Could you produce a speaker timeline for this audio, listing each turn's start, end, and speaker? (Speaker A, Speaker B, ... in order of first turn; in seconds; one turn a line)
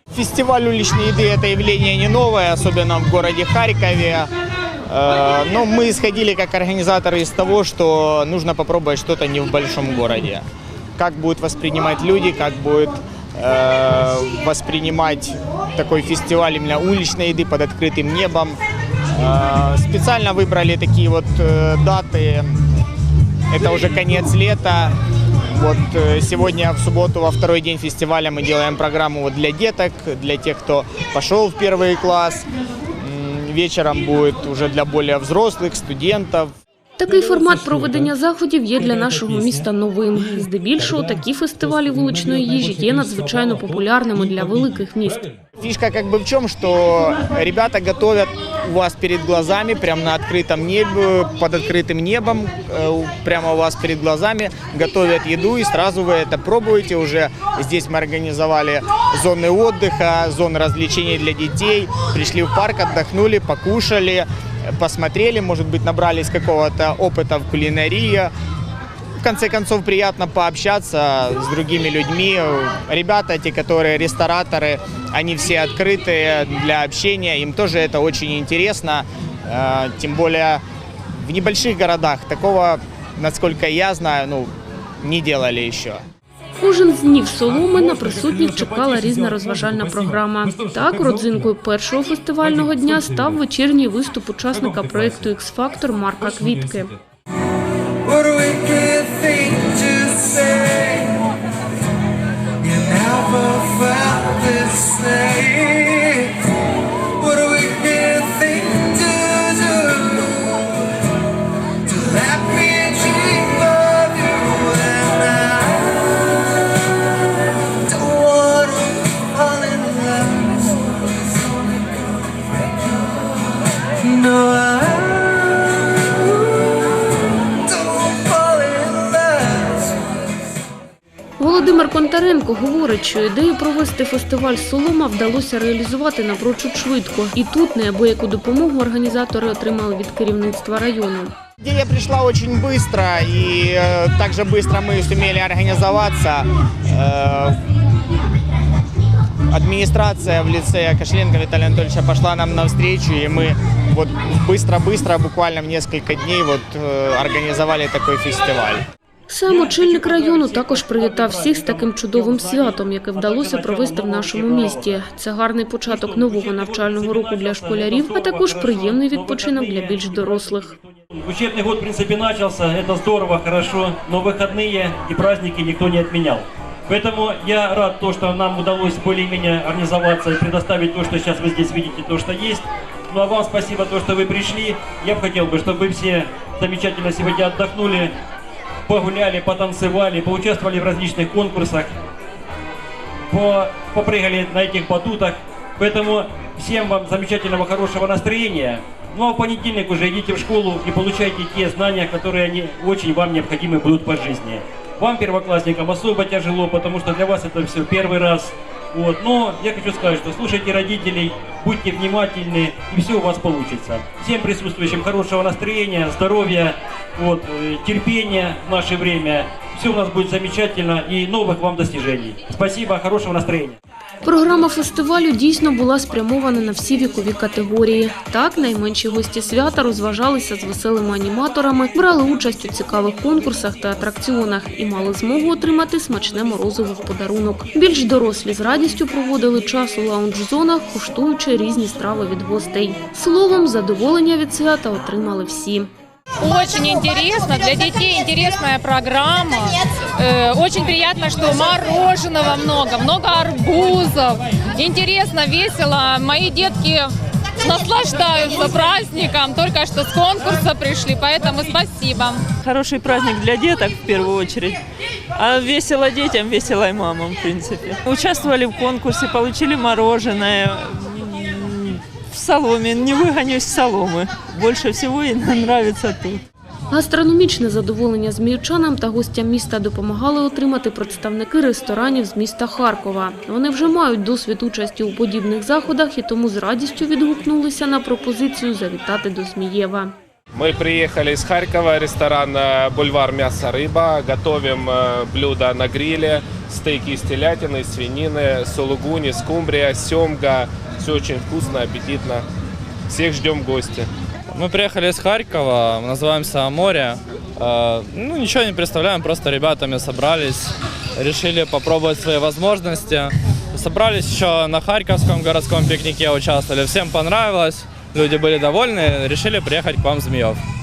Speaker A: 0.1-4.3
Speaker A: 4.9-10.4
Speaker A: 11.0-18.6
Speaker A: 19.1-22.6
Speaker A: 23.5-24.9
Speaker A: 25.5-32.5
Speaker A: 33.0-36.5
Speaker B: 37.0-45.2
Speaker C: 37.7-38.0
Speaker C: 41.6-45.4
Speaker A: 45.6-68.3
Speaker A: 69.2-80.6
Speaker A: 81.2-84.5
Speaker A: 85.0-86.0
Speaker B: 86.6-96.9
Speaker C: 87.5-91.5
Speaker C: 92.4-93.4
Speaker C: 94.5-95.2
Speaker C: 96.3-97.0
Speaker C: 98.0-101.2
Speaker C: 102.6-106.4
Speaker C: 107.2-110.8
Speaker C: 111.9-116.4
Speaker C: 117.8-120.8
Speaker C: 124.0-126.8
Speaker C: 127.7-129.9
Speaker B: 131.4-141.3
Speaker A: 141.6-147.6
Speaker A: 149.5-158.8
Speaker B: 159.3-170.7
Speaker D: 159.5-165.0
Speaker D: 165.9-188.1
Speaker D: 188.9-192.0
Speaker D: 193.3-223.8
Speaker B: 224.2-245.9
Speaker E: 246.4-262.5
Speaker F: 262.6-264.8
Speaker F: 265.4-276.4
Speaker B: 276.9-290.1
Speaker G: 290.5-302.4
Speaker G: 303.1-304.1
Speaker H: 304.5-320.6